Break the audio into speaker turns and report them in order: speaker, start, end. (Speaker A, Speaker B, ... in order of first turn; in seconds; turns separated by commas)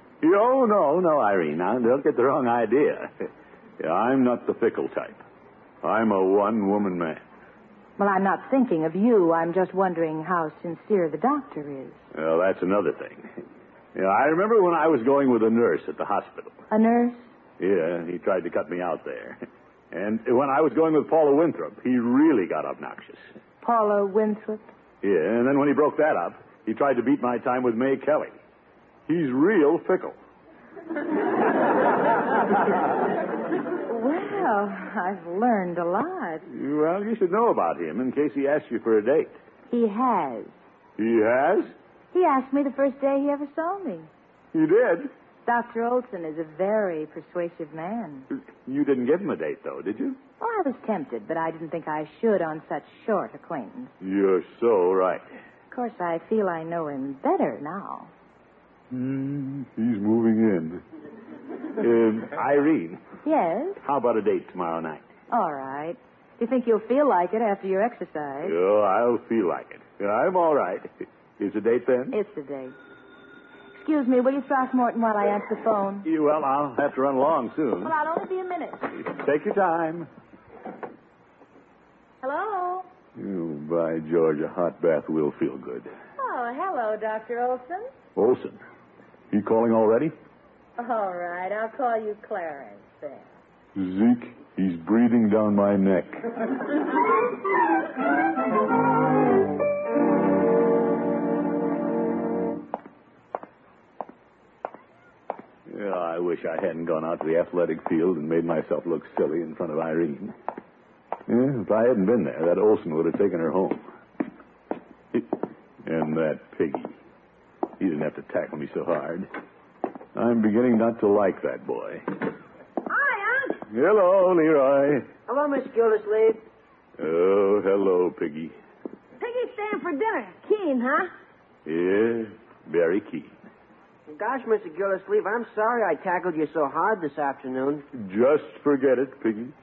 Speaker A: 0.2-3.1, Speaker A: 3.8-5.2, Speaker A: 5.8-7.2, Speaker B: 8.0-12.0, Speaker A: 12.1-13.3, Speaker A: 13.9-16.6, Speaker B: 16.7-17.2, Speaker A: 17.6-19.4, Speaker A: 19.9-23.2, Speaker B: 23.6-24.7, Speaker A: 25.0-28.3, Speaker A: 29.1-30.2, Speaker B: 33.9-36.5, Speaker A: 36.5-39.4, Speaker B: 39.7-40.5, Speaker A: 41.0-41.7, Speaker B: 42.1-44.1, Speaker A: 44.5-45.1, Speaker B: 45.5-48.3, Speaker A: 48.3-50.2, Speaker B: 50.4-53.9, Speaker A: 54.0-55.3, Speaker B: 55.7-58.1, Speaker A: 58.9-60.8, Speaker A: 61.8-63.0, Speaker B: 63.2-63.8, Speaker A: 63.8-65.0, Speaker B: 65.3-68.5, Speaker A: 68.5-72.2, Speaker B: 72.1-72.8, Speaker B: 73.7-76.1, Speaker A: 76.0-77.9, Speaker B: 77.8-78.9, Speaker A: 79.0-80.1, Speaker B: 82.2-82.9, Speaker A: 83.2-85.9, Speaker B: 86.2-87.9, Speaker A: 88.2-88.6, Speaker A: 89.3-90.1, Speaker B: 90.8-93.3, Speaker A: 93.8-96.3, Speaker A: 105.7-110.3, Speaker A: 111.3-113.8, Speaker A: 115.8-117.0, Speaker A: 117.8-119.3, Speaker A: 120.2-122.1, Speaker C: 122.9-123.6, Speaker A: 123.7-125.1, Speaker D: 125.3-126.4, Speaker A: 127.0-128.6, Speaker C: 129.2-131.1, Speaker A: 131.7-133.3, Speaker D: 134.1-137.9, Speaker A: 137.9-139.5